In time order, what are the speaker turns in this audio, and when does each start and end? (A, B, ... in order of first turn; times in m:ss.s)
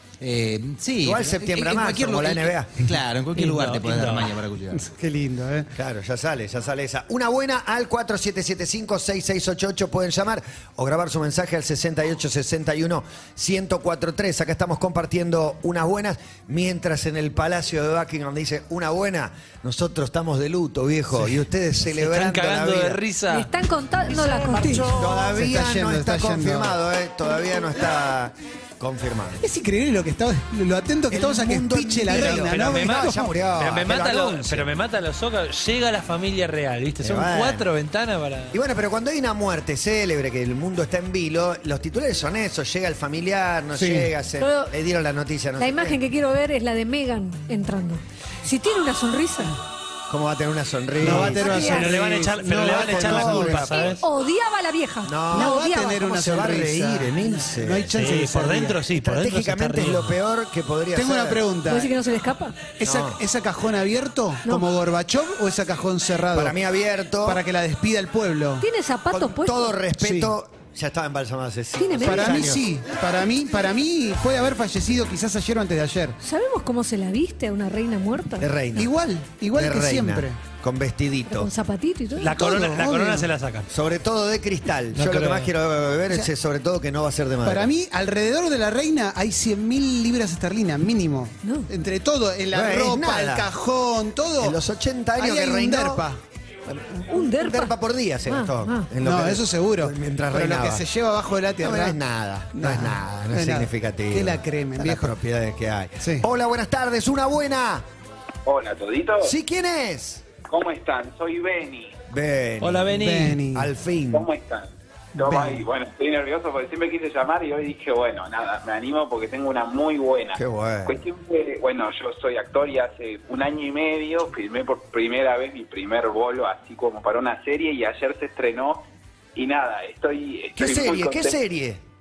0:00.2-0:04.8 A
0:01.0-0:02.8 B
0:03.4-0:04.4 C
0:04.8-0:05.7 D
0:05.8-0:23.0 B
0:21.9-0:23.5 C
0:23.3-0:25.0 E
0:24.5-0:26.8 D
0:24.8-0:29.4 B
0:29.4-0:33.3 D
0:31.1-0:34.7 B
0:32.1-0:38.6 C
0:37.0-0:37.7 B
0:38.5-0:46.0 B
0:43.7-0:44.1 D
0:44.4-0:44.7 E
0:45.6-0:49.6 E
0:50.1-0:54.0 B
0:51.0-0:53.7 D
0:51.0-0:54.0 C
0:51.3-0:51.9 E
0:53.6-0:56.0 E
0:55.0-0:57.9 B
0:55.3-0:58.8 D
0:57.9-1:00.2 C
0:58.9-1:01.5 B
1:00.9-1:01.9 D
1:01.6-1:02.7 E
1:02.8-1:06.6 D
1:02.8-1:03.2 B
1:06.3-1:07.4 B
1:07.2-1:08.7 D
1:08.6-1:09.7 E
1:09.1-1:12.6 B
1:10.0-1:10.3 D
1:11.8-1:12.5 E
1:12.0-1:16.2 D
1:16.2-1:18.5 E
1:18.4-1:18.9 B
1:18.8-1:20.4 D
1:19.5-1:21.5 B
1:21.3-1:22.4 E
1:22.2-1:23.7 C
1:22.4-1:23.3 D
1:23.7-1:27.7 B
1:24.9-1:25.5 C
1:27.4-1:34.6 D
1:31.4-1:31.7 E
1:32.5-1:33.5 B
1:34.4-1:36.0 B
1:35.2-1:36.2 D
1:36.7-1:40.8 B
1:37.1-1:37.7 E
1:38.3-1:38.9 E
1:39.0-1:42.0 D
1:41.6-1:47.8 B
1:42.5-1:45.2 D
1:46.0-1:46.2 D
1:48.4-1:49.3 F
1:49.2-1:50.3 B
1:50.4-1:52.0 F
1:52.1-1:53.0 B
1:52.6-1:53.4 C
1:53.0-1:53.7 D
1:53.5-1:54.3 B
1:54.1-2:08.8 F
1:55.2-1:55.6 D
2:00.4-2:01.0 B
2:09.4-2:11.4 F
2:10.6-2:11.8 B